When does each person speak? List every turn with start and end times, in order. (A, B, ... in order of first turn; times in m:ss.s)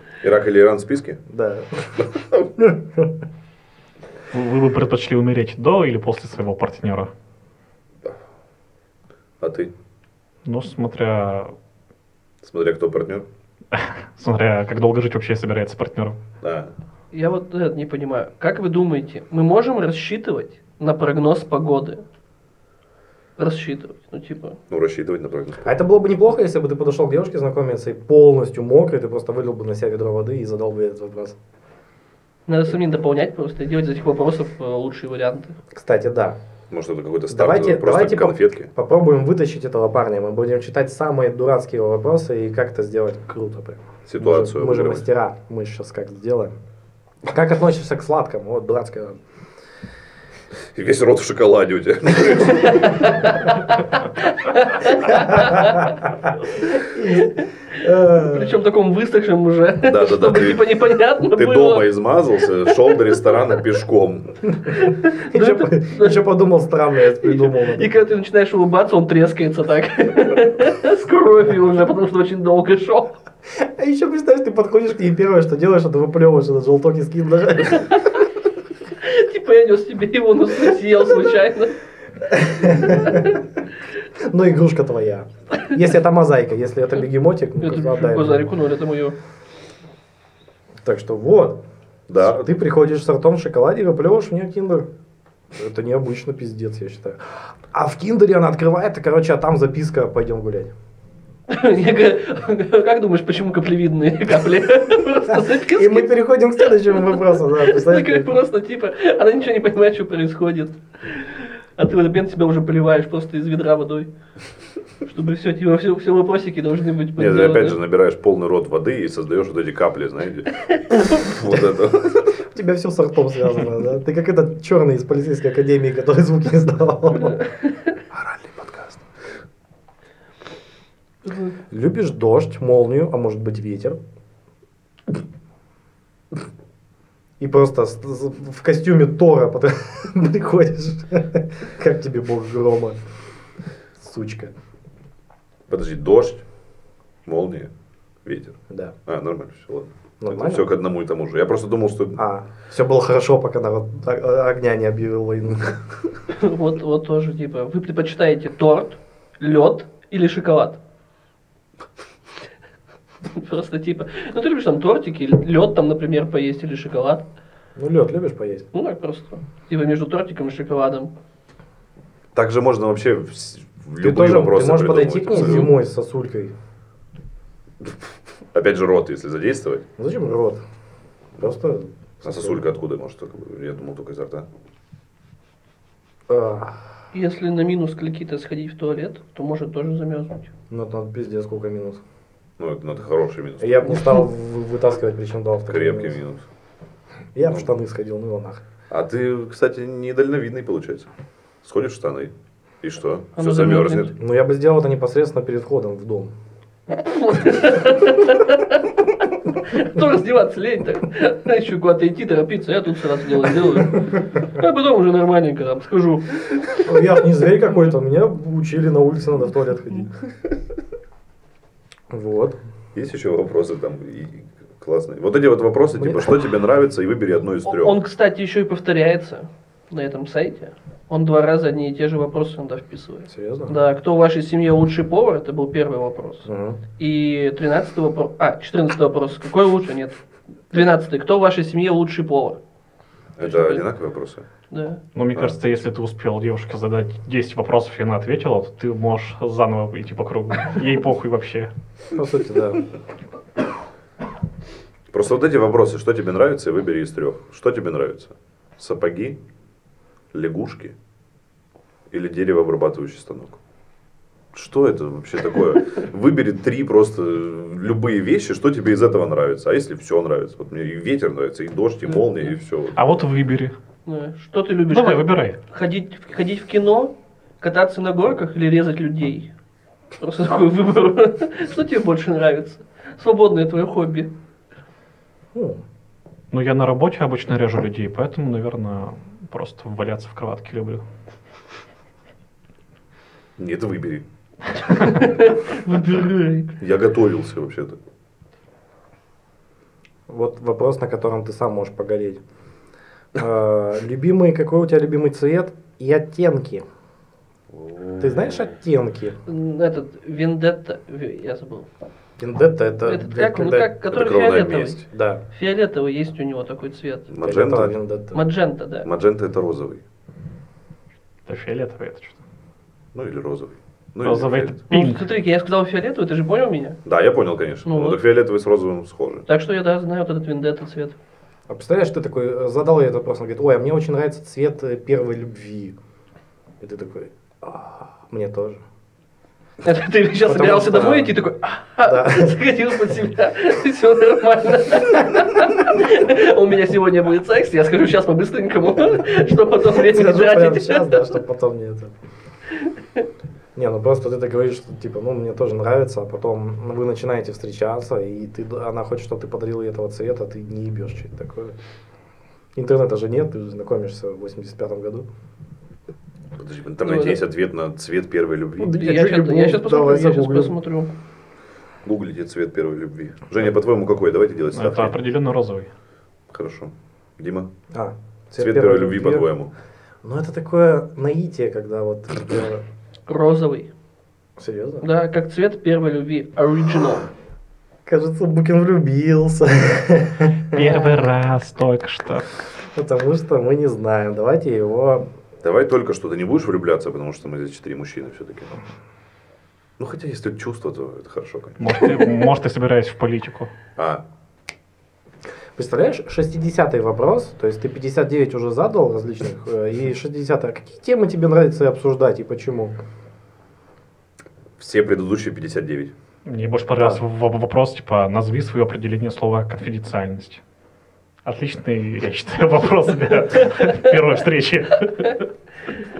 0:00.2-0:01.2 A
0:01.3-0:02.0 B
0:02.0-0:02.5 A
0:02.6-0:03.1 B
0:04.3-0:07.1 C
0:09.4-0:09.7 A
0:10.4-0:11.5 C
0:12.4-0:13.3 A
0:13.7-0:16.2 C
0:16.4-0:16.7 A
0:17.1-0:22.0 D
0:23.4-0:24.6 D
0:24.7-0:25.8 A
0:25.6-0:31.4 B
0:32.5-0:35.6 D
0:35.7-0:36.4 B
0:36.7-0:38.7 A
0:37.3-0:46.5 B
0:44.1-0:45.0 A
0:47.2-0:49.2 B
0:50.7-0:53.0 A
0:54.3-0:55.7 D
0:55.1-0:58.5 B
0:58.2-1:01.9 D
0:59.8-1:04.4 A
1:04.6-1:07.9 B
1:05.3-1:06.2 D
1:07.2-1:13.1 D
1:13.6-1:18.0 B
1:17.9-1:18.2 D
1:18.9-1:21.8 D
1:22.2-1:23.4 B
1:24.2-1:28.4 B
1:27.6-1:29.2 D
1:30.8-1:31.6 B
1:32.1-1:32.5 A
1:32.2-1:34.9 B
1:35.6-1:40.7 B
1:41.5-1:46.1 D
1:45.3-1:48.3 B
1:46.9-1:54.1 D
1:55.0-1:57.8 D
1:57.2-2:02.3 A
2:02.4-2:07.4 B
2:07.2-2:07.7 D
2:08.1-2:09.0 A
2:11.2-2:11.5 D
2:11.7-2:14.0 B
2:17.4-2:23.0 B
2:24.0-2:24.5 B
2:25.7-2:26.4 A
2:27.2-2:27.7 A
2:28.2-2:32.2 A
2:30.2-2:30.7 B
2:32.2-2:35.8 B
2:36.3-2:40.8 D
2:43.3-2:47.2 D
2:47.8-2:48.7 B
2:48.7-2:51.1 D
2:52.4-2:55.7 A
2:54.0-2:56.5 B
2:58.5-2:59.8 A
3:00.0-3:00.6 B
3:01.4-3:02.6 B
3:02.2-3:04.5 A
3:06.3-3:06.8 B
3:07.1-3:10.5 D
3:10.7-3:12.0 B
3:12.6-3:14.0 A
3:13.6-3:16.2 B
3:15.7-3:16.4 A
3:17.4-3:18.6 B
3:18.9-3:21.1 A
3:21.6-3:24.1 A
3:23.4-3:24.1 D
3:24.2-3:26.3 B
3:26.9-3:36.9 D
3:36.8-3:40.1 B
3:42.1-3:42.6 B
3:42.9-3:48.0 A
3:46.0-3:46.3 B
3:47.7-3:56.5 D
3:53.3-3:53.8 B
3:56.4-3:56.8 B
3:57.0-4:02.6 D
4:03.4-4:04.4 A
4:03.4-4:03.8 D
4:04.7-4:05.0 D
4:05.1-4:11.7 C
4:12.1-4:12.8 B
4:15.1-4:19.4 A
4:20.3-4:20.9 A
4:22.1-4:23.6 A
4:24.5-4:33.1 A
4:32.9-4:33.8 C
4:34.1-4:39.5 D
4:34.9-4:35.6 C
4:40.2-4:44.3 D
4:45.5-4:45.8 B
4:46.5-4:51.0 C
4:53.6-4:54.2 A
4:54.9-4:56.7 D
4:56.8-4:58.0 A
5:00.3-5:02.4 B
5:03.3-5:06.8 B
5:07.7-5:08.7 A
5:08.2-5:09.4 B
5:09.4-5:11.9 D
5:12.4-5:13.9 B
5:13.0-5:15.0 D
5:14.1-5:15.0 A
5:15.1-5:15.4 B
5:15.5-5:17.3 D
5:17.3-5:17.9 A
5:17.4-5:18.4 B
5:18.3-5:19.1 D
5:19.0-5:20.0 A
5:21.4-5:22.4 C
5:23.1-5:24.8 A
5:24.2-5:25.2 C
5:24.9-5:27.0 D
5:27.0-5:29.4 A
5:27.8-5:28.2 D
5:29.5-5:31.2 D
5:31.7-5:35.9 B
5:36.8-5:38.8 B
5:39.8-5:51.4 D
5:40.4-5:41.3 B
5:42.0-5:42.6 B
5:50.0-5:52.1 B
5:53.8-6:01.7 B
6:02.8-6:05.3 B
6:06.6-6:09.0 A
6:07.0-6:07.4 D
6:08.8-6:10.7 B
6:08.9-6:11.1 D
6:12.0-6:15.2 A
6:14.7-6:15.9 C
6:16.5-6:17.7 A
6:17.9-6:19.5 B
6:18.6-6:19.7 A
6:20.2-6:22.8 B
6:23.3-6:23.9 D
6:24.6-6:25.1 B
6:25.0-6:27.3 D
6:28.1-6:31.1 B
6:30.7-6:32.5 C
6:32.9-6:35.3 B
6:35.6-6:38.8 A
6:40.0-6:42.1 A
6:41.8-6:43.7 C
6:44.0-6:44.2 A
6:45.8-6:53.0 B
6:54.8-6:56.1 A
6:56.4-7:00.6 C
6:57.0-6:57.2 B
7:01.4-7:05.5 C